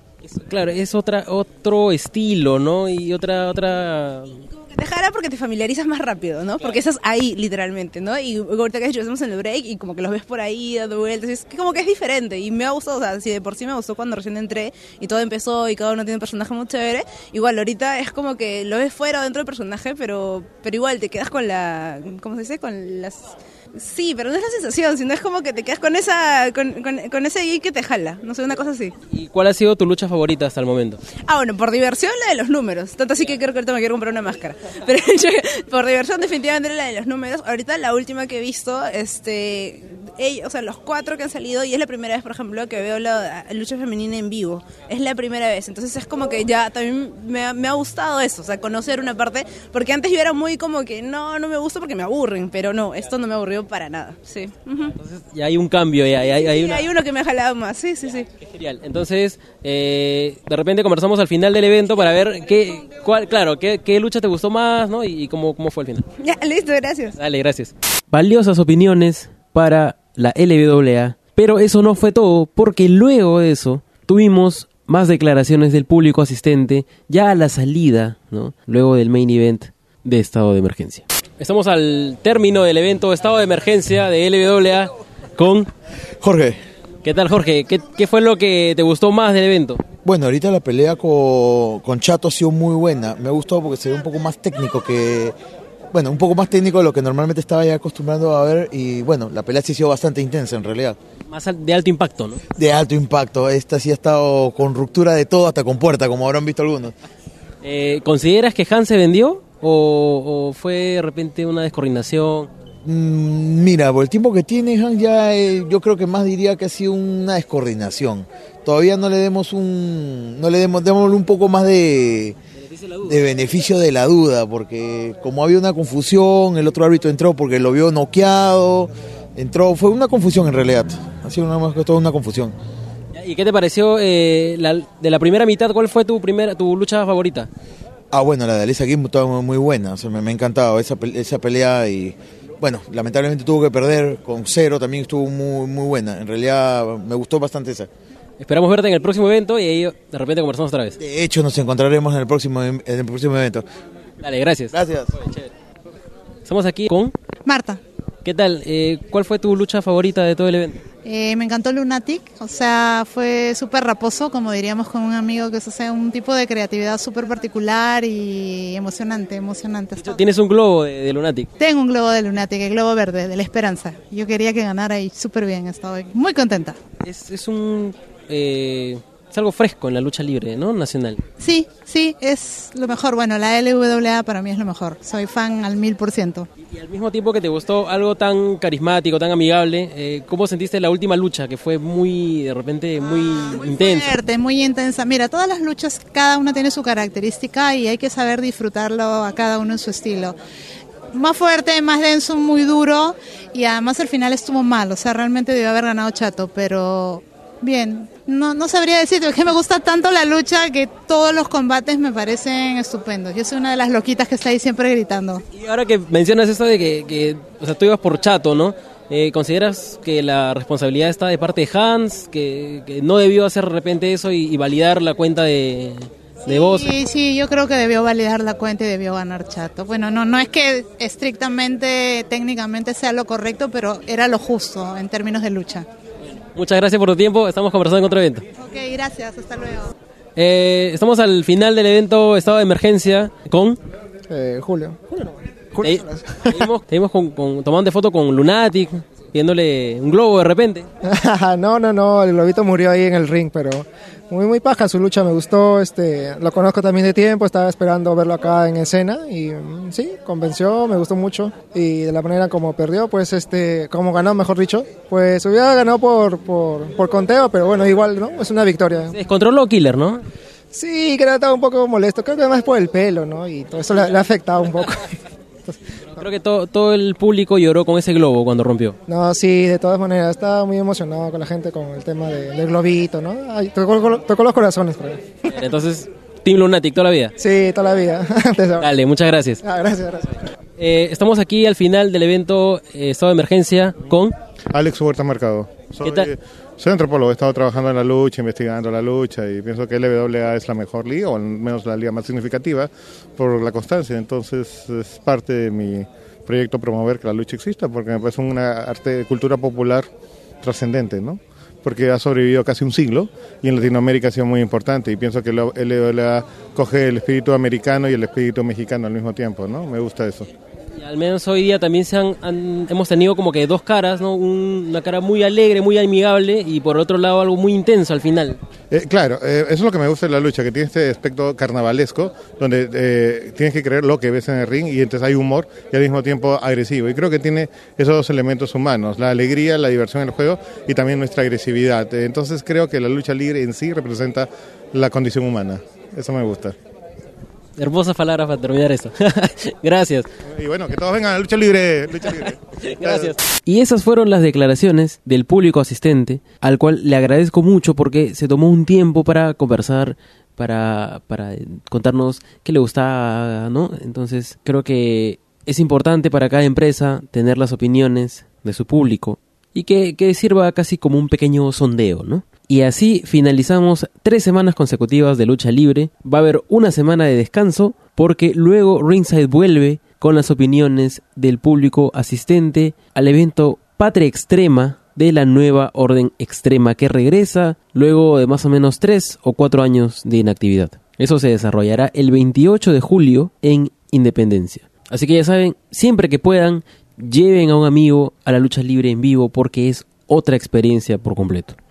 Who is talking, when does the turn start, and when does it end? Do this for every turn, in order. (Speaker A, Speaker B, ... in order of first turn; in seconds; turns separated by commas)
Speaker A: 0.2-4.4, Speaker B: 4.6-28.9, Speaker A: 29.1-31.0, Speaker B: 31.2-54.9, Speaker A: 55.0-56.9, Speaker B: 56.2-58.3, Speaker A: 58.4-66.0, Speaker B: 66.2-67.1, Speaker A: 67.1-85.7, Speaker C: 86.2-86.6, Speaker A: 87.0-89.8, Speaker C: 90.0-95.4, Speaker C: 95.9-101.0, Speaker A: 101.3-102.4, Speaker C: 102.6-106.9, Speaker A: 107.6-112.5, Speaker C: 112.8-122.4, Speaker C: 123.0-132.6, Speaker A: 133.1-137.5, Speaker C: 138.1-147.9, Speaker A: 148.4-151.0, Speaker C: 151.0-153.6, Speaker A: 154.2-155.5, Speaker C: 154.7-155.1, Speaker A: 156.4-157.1, Speaker D: 157.4-157.8, Speaker A: 158.2-160.8, Speaker D: 161.1-170.2, Speaker A: 170.0-171.5, Speaker D: 171.6-176.8, Speaker A: 177.0-181.2, Speaker D: 181.4-186.5, Speaker A: 186.7-194.1, Speaker D: 193.0-200.4, Speaker D: 201.1-215.4, Speaker A: 215.5-226.9, Speaker D: 226.5-235.9, Speaker A: 236.5-238.4, Speaker D: 238.6-239.9, Speaker A: 240.4-243.8, Speaker E: 244.3-246.7, Speaker A: 245.8-250.9, Speaker E: 251.0-269.2, Speaker A: 269.1-270.2, Speaker E: 270.7-275.1, Speaker A: 276.2-279.0, Speaker E: 279.1-285.6, Speaker A: 285.5-287.3, Speaker E: 287.4-288.9, Speaker A: 288.8-289.6, Speaker E: 289.6-290.4, Speaker A: 290.8-294.3, Speaker F: 294.7-310.1, Speaker A: 296.0-296.3, Speaker F: 310.6-320.5, Speaker A: 320.9-328.6, Speaker F: 328.9-346.8, Speaker A: 347.8-350.3, Speaker F: 350.6-353.3, Speaker A: 352.9-401.8